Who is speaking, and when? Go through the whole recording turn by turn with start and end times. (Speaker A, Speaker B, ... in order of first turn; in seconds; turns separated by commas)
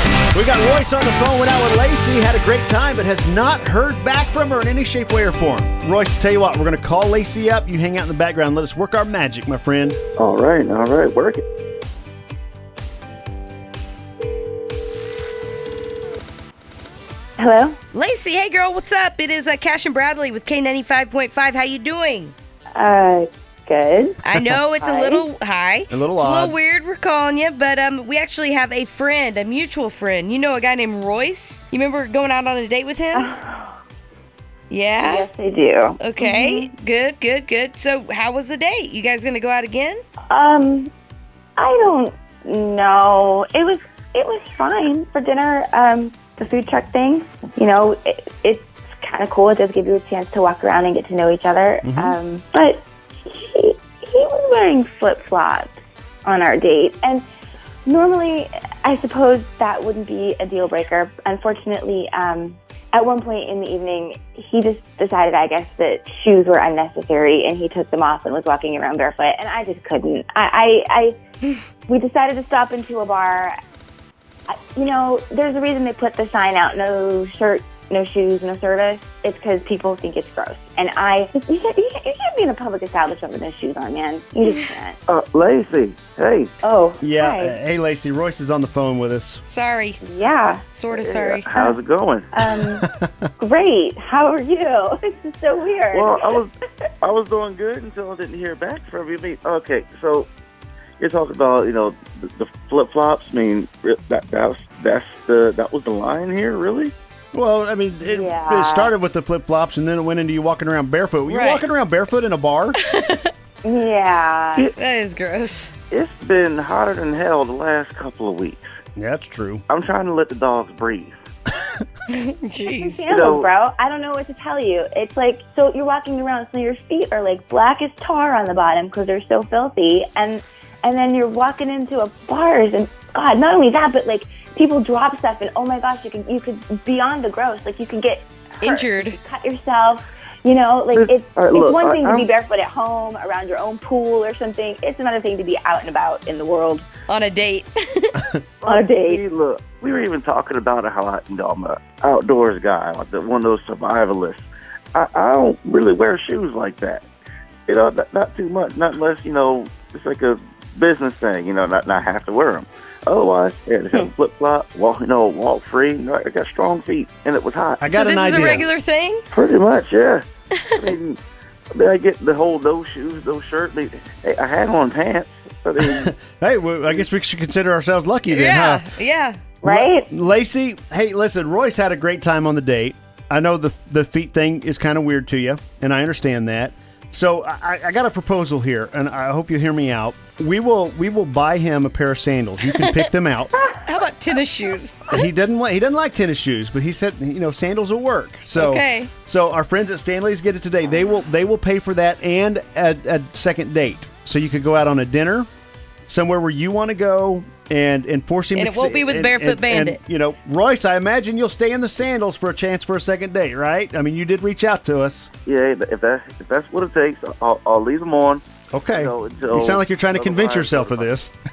Speaker A: 0.3-10.0, Speaker B: 10.2-11.4, Speaker C: 17.4-17.8, Speaker D: 17.9-22.3, Speaker C: 22.7-24.2, Speaker D: 24.2-33.3, Speaker C: 24.8-25.2, Speaker A: 25.9-26.6, Speaker C: 33.1-33.7, Speaker D: 34.7-35.3, Speaker C: 35.0-36.7, Speaker D: 36.0-40.0, Speaker C: 40.3-40.9, Speaker C: 41.6-57.2, Speaker A: 51.8-52.2, Speaker C: 57.9-71.2, Speaker C: 71.8-73.5, Speaker C: 74.5-85.0, Speaker B: 85.1-86.5, Speaker C: 86.6-87.6, Speaker A: 87.0-89.4, Speaker D: 89.5-90.0, Speaker C: 90.0-90.6, Speaker D: 90.7-91.5, Speaker B: 90.9-92.3, Speaker C: 92.3-92.8, Speaker A: 92.5-93.3, Speaker C: 93.4-96.4, Speaker B: 95.9-100.3, Speaker B: 101.0-106.9, Speaker A: 107.3-112.8, Speaker C: 108.0-108.9, Speaker D: 111.2-111.7, Speaker D: 112.8-113.3, Speaker C: 113.6-114.7, Speaker D: 114.6-115.7, Speaker B: 115.9-118.7, Speaker A: 119.0-119.6, Speaker B: 119.7-121.1, Speaker D: 122.1-123.0, Speaker C: 122.7-146.8, Speaker B: 123.1-123.5, Speaker D: 138.6-139.2, Speaker B: 140.9-142.3, Speaker D: 147.1-148.2, Speaker B: 148.6-157.1, Speaker C: 148.7-149.2, Speaker B: 157.7-167.8, Speaker A: 167.8-168.7, Speaker D: 167.8-169.2, Speaker B: 169.3-171.2, Speaker D: 170.6-170.9, Speaker B: 171.7-176.1, Speaker A: 175.8-178.8, Speaker D: 178.3-179.4, Speaker C: 179.6-180.1, Speaker A: 179.6-193.5, Speaker D: 193.8-195.2, Speaker A: 195.1-205.5, Speaker D: 198.5-199.1, Speaker A: 206.1-215.3, Speaker D: 208.5-210.0, Speaker B: 215.4-221.1, Speaker A: 218.7-221.3